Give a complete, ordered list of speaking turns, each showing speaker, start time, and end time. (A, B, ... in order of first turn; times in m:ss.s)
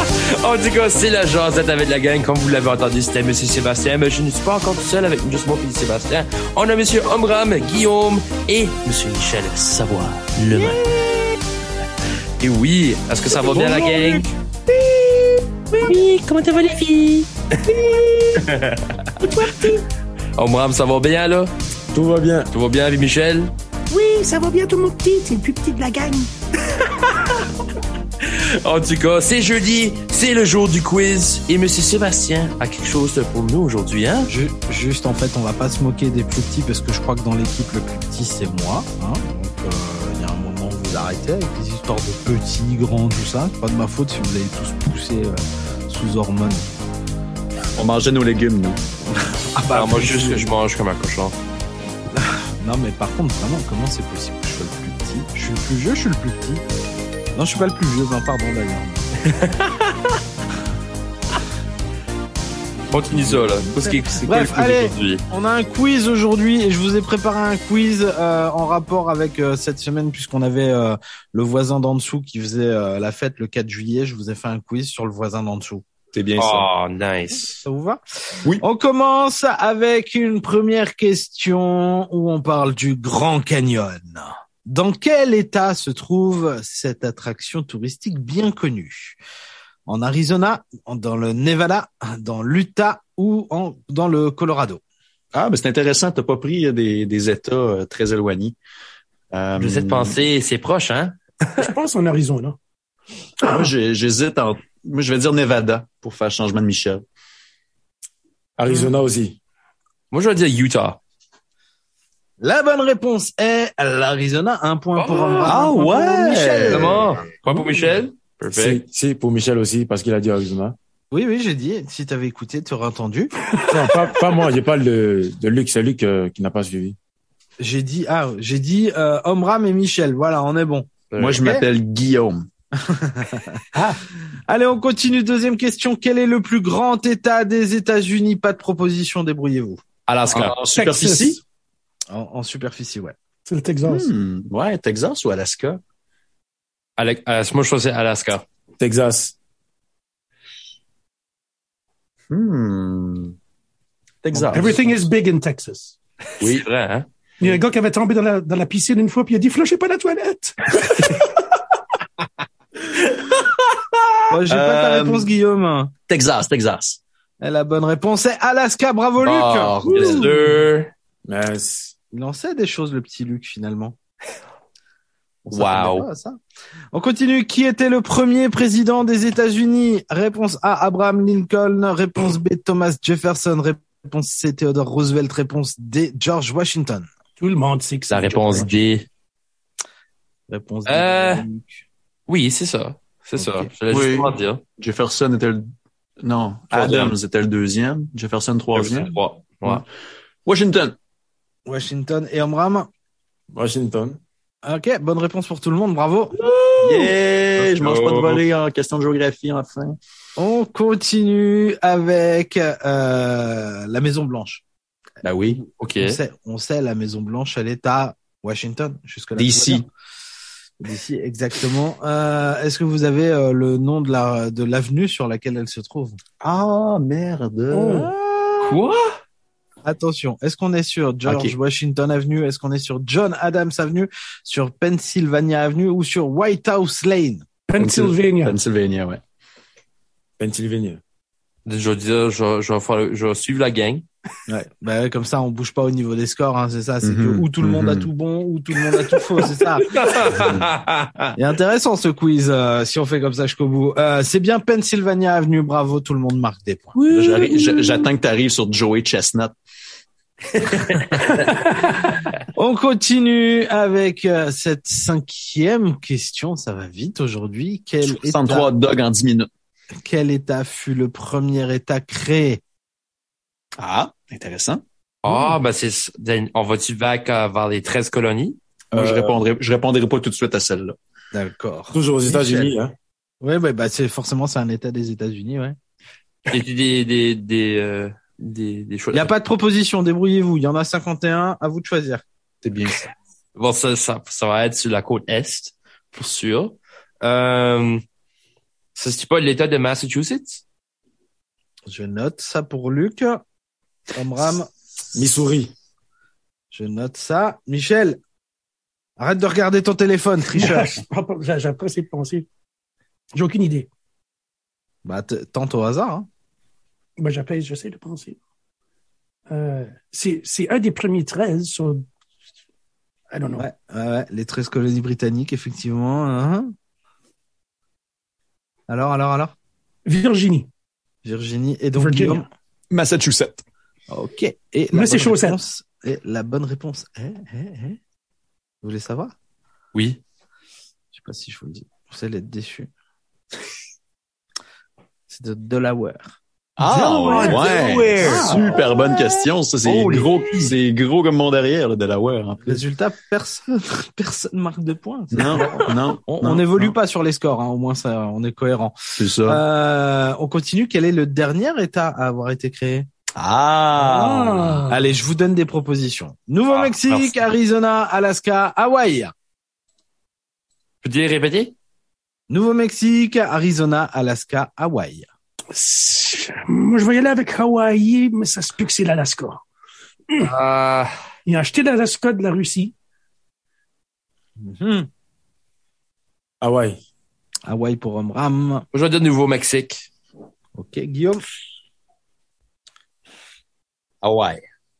0:00.4-0:11.0 A
0:12.4-0:14.3 A
0:13.3-0:14.0 B
0:15.8-0:17.3 A
0:18.4-0:19.2 A
0:19.3-0:19.8 C
0:20.4-0:21.5 A
0:21.9-0:22.5 D
0:22.5-0:23.5 A
0:23.9-0:26.3 C
0:28.3-0:34.3 A
0:34.3-0:46.7 B
0:47.8-0:48.8 E
0:49.1-0:50.5 B
0:49.7-0:51.3 A
0:52.1-0:56.6 B
0:57.3-0:59.1 B
1:02.8-1:15.8 B
1:02.9-1:05.2 A
1:16.1-1:16.7 E
1:16.4-1:17.6 A
1:17.6-1:29.2 B
1:29.9-1:34.8 B
1:35.3-1:38.6 E
1:39.3-1:40.2 E
1:39.6-1:41.7 A
1:41.6-1:42.6 C
1:43.4-1:47.0 E
1:48.6-1:49.4 D
1:50.1-1:51.0 A
1:52.4-1:57.2 B
1:55.0-1:55.5 A
1:55.4-1:57.0 E
1:56.7-1:58.8 A
1:58.5-2:00.8 D
2:01.1-2:03.3 B
2:03.7-2:07.0 D
2:07.6-2:11.6 B
2:11.1-2:11.4 A
2:11.2-2:12.5 E
2:12.8-2:13.6 B
2:13.7-2:14.0 C
2:14.5-2:19.8 B
2:20.1-2:20.5 A
2:20.3-2:21.4 E
2:20.7-2:21.4 C
2:22.1-2:23.1 B
2:23.5-2:24.1 C
2:23.8-2:25.8 E
2:27.0-2:28.4 A
2:28.8-2:29.3 D
2:32.3-2:33.3 E
2:34.2-2:34.8 E
2:34.3-2:35.1 B
2:34.5-2:36.0 C
2:36.4-2:36.6 E
2:36.4-2:37.0 A
2:37.4-2:41.1 C
2:44.3-2:45.9 B
2:44.5-2:45.3 E
2:46.1-2:47.0 E
2:47.4-2:50.3 B
2:49.2-2:50.3 E
2:49.9-2:50.9 A
2:51.2-2:51.9 D
2:52.1-2:54.0 B
2:55.5-2:55.8 E
2:55.5-2:56.1 A
2:55.5-2:56.4 B
2:56.9-3:07.1 B
3:07.4-3:08.8 C
3:08.1-3:09.1 A
3:10.5-3:11.8 B
3:10.9-3:11.4 A
3:12.3-3:14.6 A
3:13.4-3:13.7 B
3:13.9-3:15.7 E
3:16.2-3:19.1 E
3:16.7-3:17.1 A
3:16.7-3:17.1 D
3:18.7-3:19.8 A
3:20.4-3:20.9 E
3:21.6-3:22.9 B
3:23.5-3:24.2 D
3:24.6-3:26.4 B
3:26.4-3:28.4 A
3:26.8-3:30.0 E
3:30.4-3:34.6 B
3:35.2-3:35.6 E
3:35.8-3:36.2 A
3:36.0-3:39.9 B
3:39.4-3:39.8 E
3:40.8-3:46.2 B
3:46.4-3:48.7 E
3:47.7-3:48.1 C
3:48.6-3:49.1 A
3:49.8-3:57.4 B
3:51.2-3:51.6 E
3:57.7-3:58.6 C
3:57.8-3:59.2 E
4:00.4-4:01.0 D
4:01.6-4:04.0 A
4:04.5-4:10.6 B
4:07.0-4:08.1 E
4:09.7-4:11.3 A
4:10.4-4:10.6 E
4:11.4-4:17.0 B
4:17.1-4:19.6 E
4:20.5-4:21.6 A
4:22.5-4:28.7 B
4:28.0-4:29.5 E
4:29.9-4:32.6 B
4:33.8-4:34.8 E
4:35.2-4:38.6 A
4:38.9-4:39.4 D
4:38.9-4:40.9 E
4:41.3-4:42.7 B
4:41.9-4:42.9 D
4:43.4-4:45.8 B
4:46.5-4:49.3 A
4:49.1-4:52.2 B
4:52.6-4:53.1 E
4:53.5-4:58.0 A
4:58.9-5:00.6 A
5:01.9-5:03.4 B
5:04.1-5:04.7 B
5:05.1-5:05.7 D
5:06.7-5:08.2 B
5:09.2-5:11.0 B
5:10.5-5:12.4 C
5:13.3-5:13.9 C
5:15.0-5:16.3 B
5:17.2-5:18.4 C
5:19.5-5:22.0 C
5:23.3-5:23.7 C
5:23.6-5:26.7 B
5:28.9-5:29.5 B
5:30.0-5:30.7 C
5:31.2-5:32.4 B
5:32.0-5:32.5 C
5:32.9-5:33.6 E
5:34.1-5:38.0 B
5:34.9-5:35.6 C
5:38.8-5:39.3 B
5:39.9-5:40.2 A
5:41.1-5:42.9 B
5:45.3-5:46.4 B
5:46.8-5:52.8 E
5:46.8-5:48.6 A
5:47.3-5:47.6 C
5:47.5-5:49.2 B
5:49.8-5:50.4 A
5:52.6-6:03.1 B
5:55.3-5:56.9 E
5:59.2-5:59.6 E
6:03.3-6:04.9 E
6:04.0-6:05.1 C
6:04.9-6:09.3 B
6:06.7-6:07.5 A
6:11.0-6:11.7 A
6:12.5-6:15.3 B
6:15.7-6:19.6 C
6:20.4-6:21.1 A
6:21.4-6:22.9 C
6:24.6-6:25.1 B
6:26.6-6:27.0 D
6:27.7-6:28.8 B
6:28.9-6:30.1 A
6:30.7-6:31.4 B
6:34.2-6:34.6 E